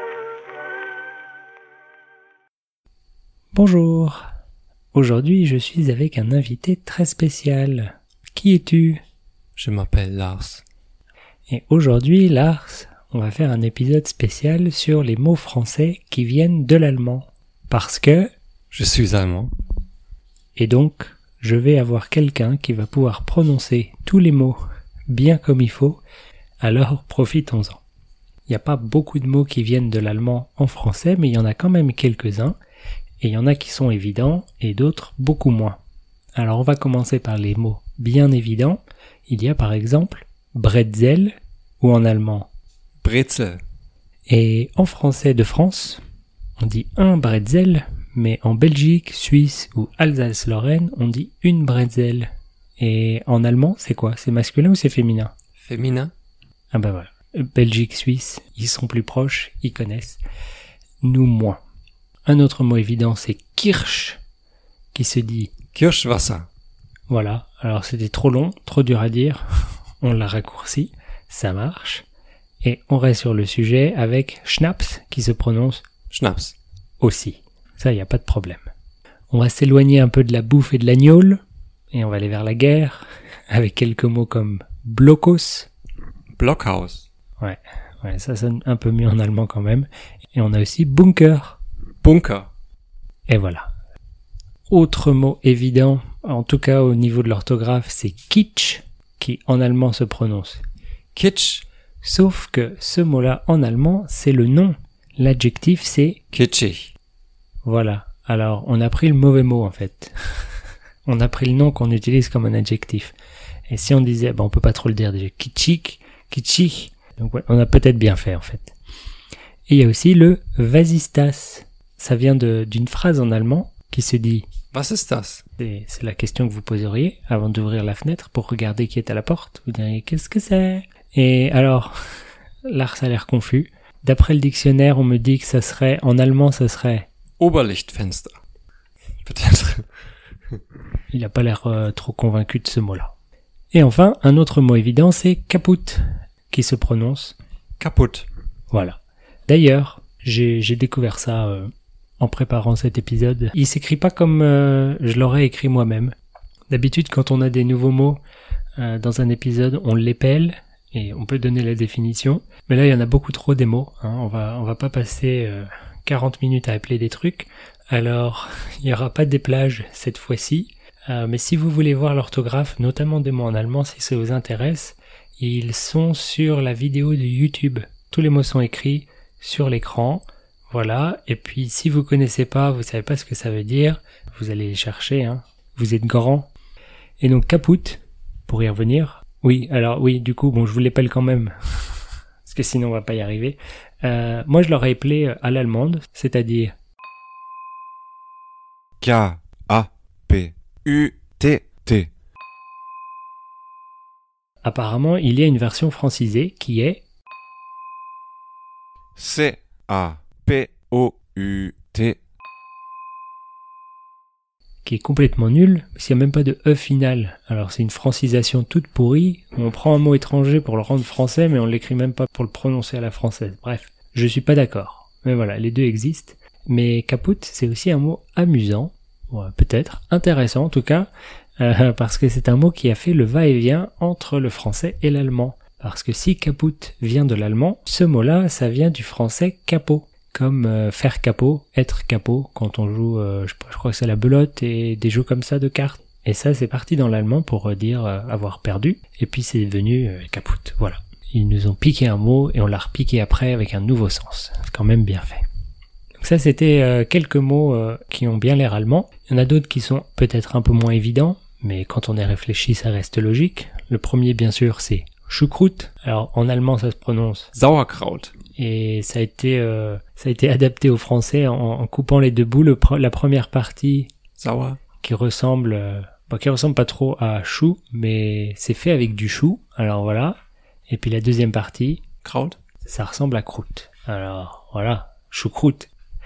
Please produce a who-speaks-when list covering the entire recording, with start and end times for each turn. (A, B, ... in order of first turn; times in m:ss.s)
0:03.5-0:04.2 A
0:04.9-0:09.0 A
0:09.6-0:10.6 B
0:11.5-0:18.3 A
0:18.7-0:19.5 B
0:20.6-0:24.6 A
0:25.1-0:26.0 A
0:26.6-0:27.8 A
0:28.5-0:32.6 A
0:33.2-0:35.8 A
0:36.4-0:42.5 A
0:43.0-0:43.6 B
0:44.3-0:46.0 A
0:46.6-0:55.3 A
0:55.6-0:56.1 B
0:56.7-1:00.2 A
1:01.0-1:01.6 A
1:02.2-1:04.2 A
1:04.9-1:05.5 A
1:05.7-1:06.5 B
1:07.1-1:09.4 A
1:10.0-1:12.0 A
1:12.6-1:15.8 A
1:16.1-1:16.6 B
1:17.0-1:18.7 A
1:19.3-1:21.4 A
1:21.9-1:25.7 A
1:26.4-1:27.0 B
1:27.4-1:31.6 A
1:32.0-1:32.5 B
1:33.3-1:33.7 A
1:34.7-1:40.6 A
1:41.1-1:41.6 B
1:42.0-1:46.2 A
1:46.3-1:46.9 B
1:47.6-1:50.1 A
1:51.0-1:53.1 A
1:53.7-1:58.7 A
1:59.7-2:04.4 A
2:04.7-2:05.4 B
2:05.6-2:11.9 A
2:12.6-2:17.1 A
2:17.4-2:18.3 B
2:19.2-2:19.8 B
2:21.1-2:23.1 A
2:23.7-2:27.4 A
2:27.8-2:28.3 B
2:28.7-2:36.1 A
2:36.7-2:38.2 A
2:38.8-3:06.5 A
3:07.2-3:11.5 A
3:12.4-3:16.7 A
3:19.0-3:22.1 C
3:24.6-3:27.0 A
3:29.2-3:32.2 C
3:34.8-3:51.1 A
3:51.6-4:15.4 A
4:16.2-4:27.5 A
4:27.5-4:28.3 B
4:28.6-4:34.1 A
4:34.4-4:34.8 B
4:35.0-4:40.4 A
4:40.9-4:42.0 A
4:42.2-4:42.6 B
4:42.8-4:45.9 A